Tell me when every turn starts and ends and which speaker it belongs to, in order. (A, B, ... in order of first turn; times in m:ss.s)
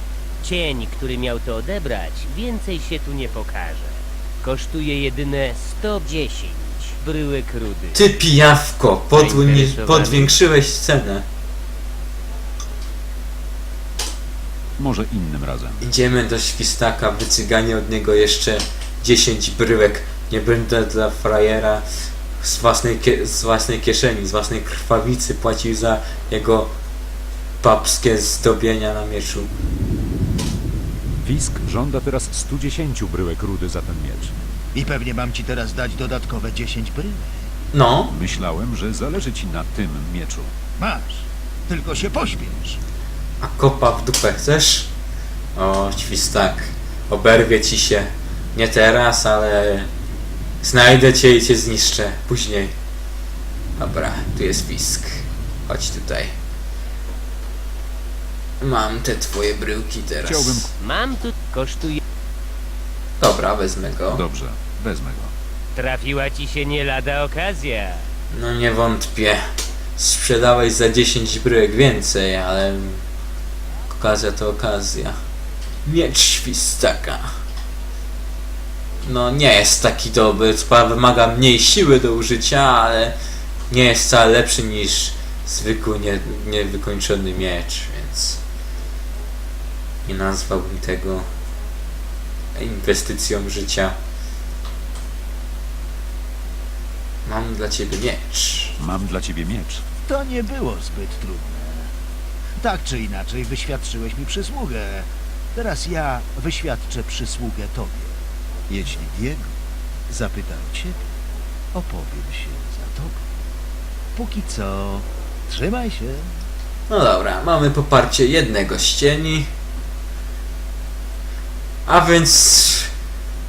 0:00.4-0:08.0 A
0:07.9-0:11.2 B
0:09.1-0:10.3 A
0:14.8-0:15.8 C
0:15.8-0:21.8 B
0:22.4-0:26.7 B
0:27.6-0:29.5 B
0:31.2-0:34.3 C
0:34.7-0:37.5 D
0:37.7-0:38.1 B
0:38.1-0:40.5 C
0:40.8-0:42.8 D
0:43.4-0:44.9 B
0:45.6-0:49.9 B
0:50.6-0:52.7 B
0:53.8-0:56.3 B
0:58.6-1:00.7 B
1:00.2-1:00.7 C
1:00.8-1:02.0 A
1:03.2-1:04.2 B
1:04.2-1:05.3 C
1:05.7-1:08.0 A
1:08.3-1:09.4 B
1:10.0-1:13.0 B
1:13.9-1:15.2 B
1:15.8-1:17.3 B
1:19.0-1:23.1 B
1:23.7-1:28.4 B
1:30.0-1:31.2 B
1:32.5-1:34.0 B
1:37.2-1:38.7 B
1:38.8-1:39.8 C
1:40.0-1:41.9 D
1:42.6-1:48.1 D
1:48.7-1:49.5 D
1:50.1-1:51.0 D
1:51.7-1:53.2 D
1:54.1-1:56.4 D
1:56.9-1:59.5 B
2:01.8-2:02.9 B